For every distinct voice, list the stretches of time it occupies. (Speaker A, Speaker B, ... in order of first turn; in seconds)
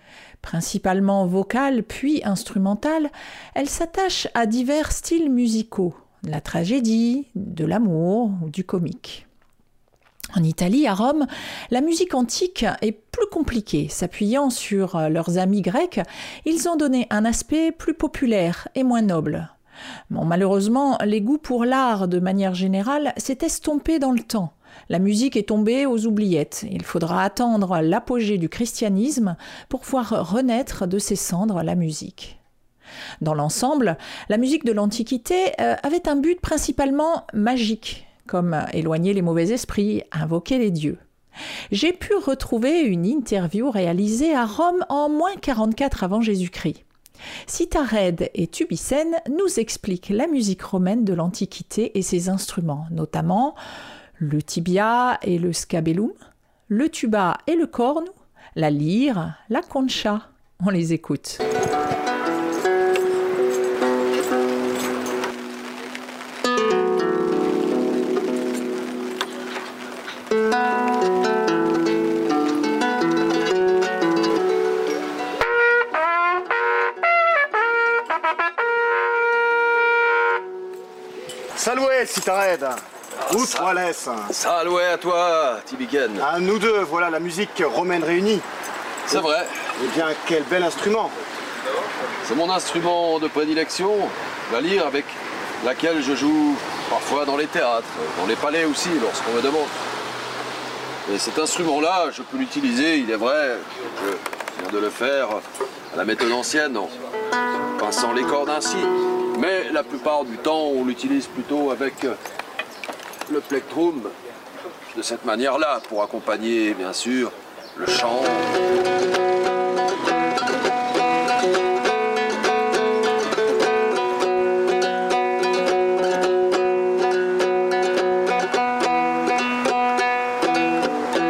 Speaker A: 0.4-9.3, 10.3-19.5, 20.1-32.4, 33.2-41.0, 41.7-46.8, 47.5-53.6, 54.2-56.1, 56.7-61.4
Speaker B: 81.5-84.3, 86.2-88.5, 89.8-91.2
Speaker C: 84.3-86.3, 89.1-89.7, 92.2-99.7, 101.1-106.9, 107.8-112.2, 113.3-114.1, 114.9-118.5